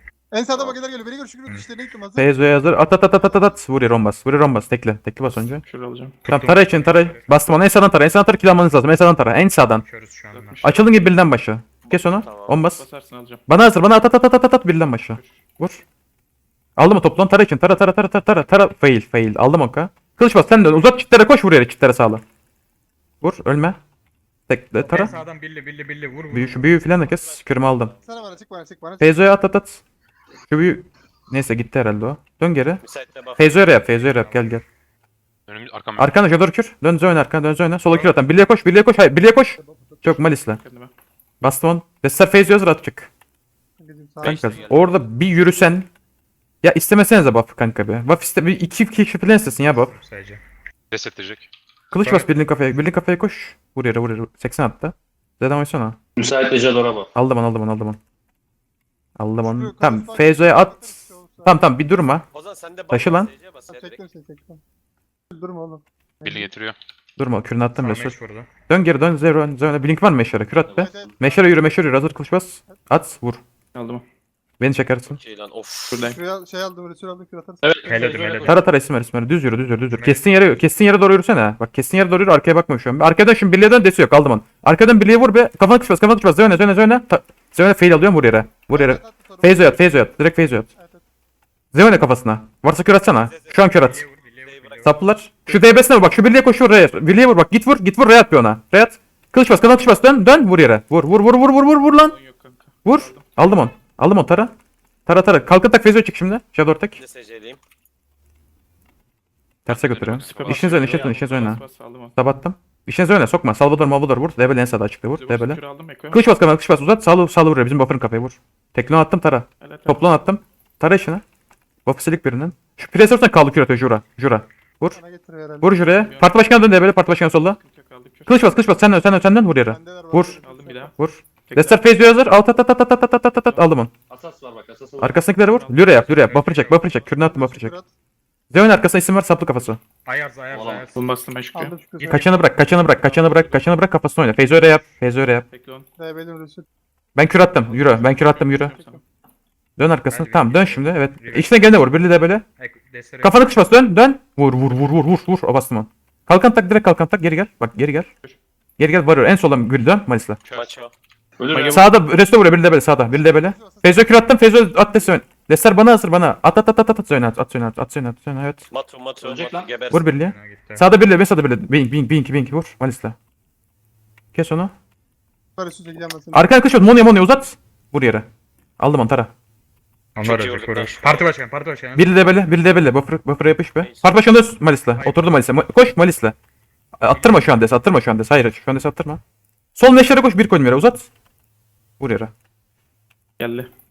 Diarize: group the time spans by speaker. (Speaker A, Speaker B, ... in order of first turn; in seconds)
Speaker A: 0.3-3.5, 28.1-29.3, 43.8-44.6, 59.4-61.6, 63.7-64.6, 65.3-66.5, 70.8-71.6, 76.1-78.0, 88.7-89.9, 90.7-91.0, 125.0-125.7, 129.6-131.0, 137.1-137.9, 141.6-142.2, 146.0-146.7, 163.1-165.1, 175.6-176.5
Speaker B: 2.2-5.6, 6.3-9.8, 10.6-12.8, 13.5-15.8, 16.8-22.2, 23.2-23.8, 24.5-25.1, 26.3-27.9, 29.0-29.8, 30.5-32.8, 33.4-34.6, 36.0-40.6, 41.4-43.1, 44.2-45.9, 46.6-50.0, 51.9-56.0, 57.1-58.0, 59.2-62.3, 62.9-63.3, 67.2-68.2, 68.7-73.4, 74.6-75.2, 78.4-90.7, 91.7-94.0, 94.8-102.2, 102.8-104.5, 105.1-107.0, 109.7-111.6, 112.2-121.2, 121.8-125.0, 125.6-127.6, 128.3-130.4, 131.0-133.9, 135.0-137.8, 138.5-139.8, 142.0-145.5, 147.2-148.7, 149.8-152.4, 153.2-158.1, 158.8-160.4, 161.7-168.7, 169.9-173.2, 174.3-174.7, 176.3-178.3, 178.8-179.3, 181.9-186.3, 187.0-189.2, 189.8-191.1, 192.0-192.3
Speaker C: 5.3-6.2, 10.3-10.9, 12.7-13.4, 15.1-15.4, 40.6-40.9, 73.7-74.0, 75.9-76.2, 95.5-95.8, 101.9-103.3, 110.3-112.2, 115.1-116.2, 119.6-120.2, 125.7-128.7, 130.4-132.0, 133.5-133.7, 135.4-136.3, 140.9-143.8, 145.5-145.9, 147.5-149.0, 161.5-161.9, 193.4-193.7
Speaker D: 6.2-7.4, 9.8-10.6, 24.9-26.8, 34.0-34.5, 37.9-38.2, 49.7-50.4, 52.0-52.3, 67.8-68.5, 77.8-78.6, 79.9-80.3, 93.7-95.0, 136.3-137.0, 140.1-141.0, 150.1-151.8, 152.6-153.4, 170.1-170.9, 180.2-182.2, 185.0-185.3, 187.1-187.5
Speaker E: 11.8-12.6, 27.0-28.1, 32.9-33.6, 62.3-63.7, 75.1-76.0, 93.2-93.6, 94.5-94.8, 107.0-107.6, 160.6-160.9, 168.7-170.1, 180.2-181.2, 183.8-184.2
Speaker F: 35.5-36.1, 44.2-45.0, 50.9-51.5, 62.6-64.0, 66.2-66.8, 109.7-110.6, 160.4-160.9
Speaker G: 56.2-57.1, 70.6-71.2, 77.6-78.6, 110.3-111.2, 134.1-135.3, 140.5-140.9, 161.4-162.0, 169.2-169.8